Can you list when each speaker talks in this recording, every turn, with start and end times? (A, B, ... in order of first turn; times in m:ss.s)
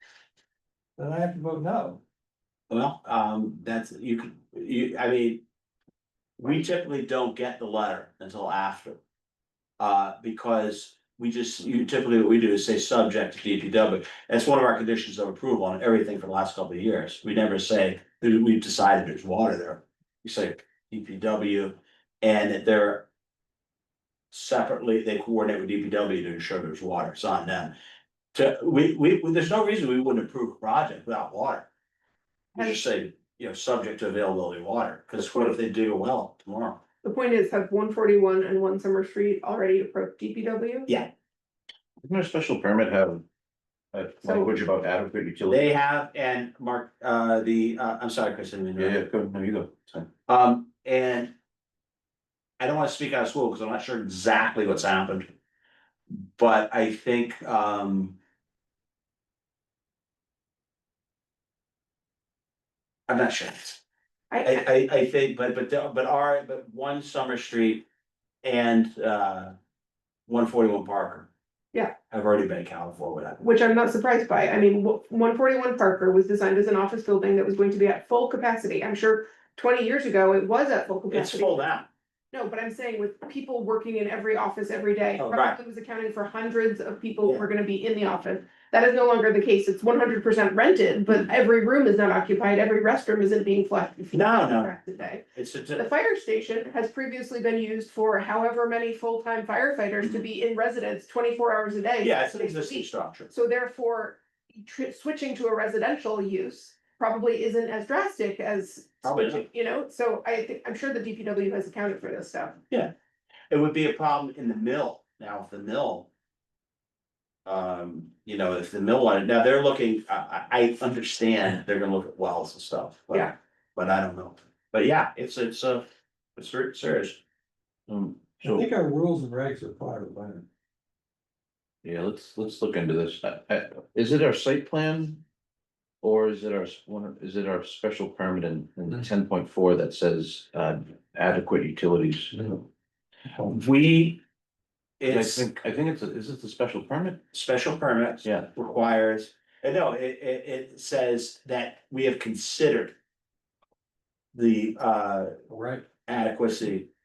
0:01.0-0:02.0 A
0:02.7-0:05.4 B
0:06.4-0:09.0 B
0:09.8-0:23.1 B
0:24.3-0:27.7 B
0:28.3-0:31.7 B
0:32.5-0:36.8 B
0:35.2-0:35.5 C
0:37.0-0:40.9 C
0:42.0-0:43.2 D
0:43.9-0:45.6 D
0:44.2-0:44.5 C
0:45.5-0:49.0 B
0:48.8-0:50.1 D
0:50.3-0:51.3 B
0:52.6-0:55.3 B
0:56.4-0:58.2 B
1:03.1-1:03.8 B
1:04.3-1:04.6 C
1:04.4-1:07.8 B
1:08.4-1:09.5 B
1:10.3-1:11.3 B
1:12.1-1:13.4 B
1:13.4-1:21.6 C
1:21.1-1:21.9 B
1:22.3-1:52.6 C
1:25.2-1:25.6 B
1:34.1-1:35.8 B
1:40.0-1:40.2 B
1:42.0-1:43.3 B
1:49.0-1:49.4 B
1:53.5-1:56.1 B
1:57.4-2:07.2 B
2:07.9-2:08.7 D
2:08.4-2:10.4 A
2:11.8-2:15.2 D
2:16.0-2:22.5 D
2:23.4-2:24.2 B
2:25.0-2:25.5 B
2:25.1-2:27.2 D
2:27.3-2:32.9 B
2:34.3-2:35.3 B
2:35.5-2:35.8 A
2:36.0-2:36.9 B